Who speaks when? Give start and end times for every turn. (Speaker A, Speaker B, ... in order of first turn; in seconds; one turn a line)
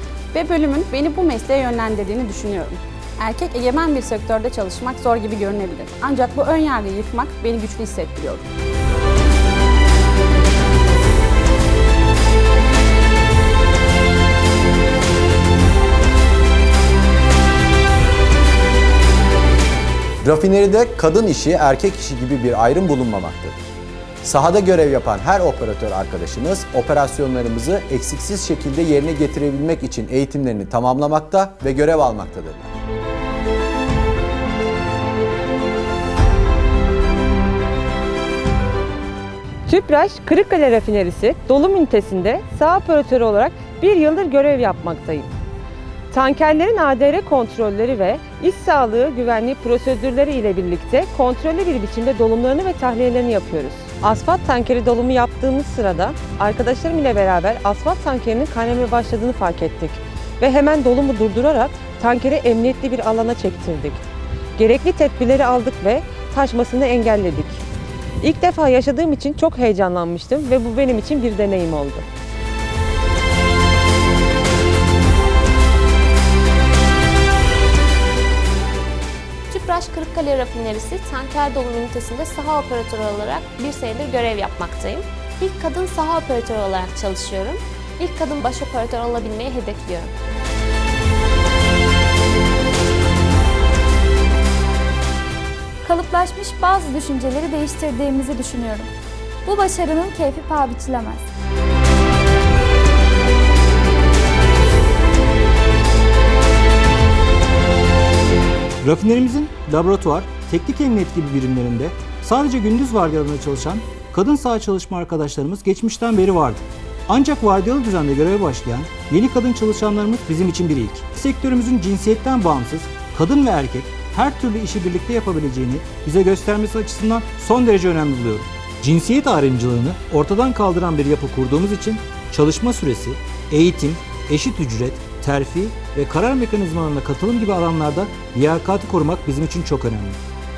Speaker A: 0.3-8.4
Speaker B: 20.2-23.7
Speaker B: 24.2-32.8
Speaker C: 39.7-45.3
Speaker C: 46.1-64.0
Speaker C: 64.6-67.6
Speaker C: 68.2-72.0
Speaker D: 79.5-90.1
Speaker E: 95.8-98.9
Speaker E: 99.4-101.3
Speaker F: 108.8-140.2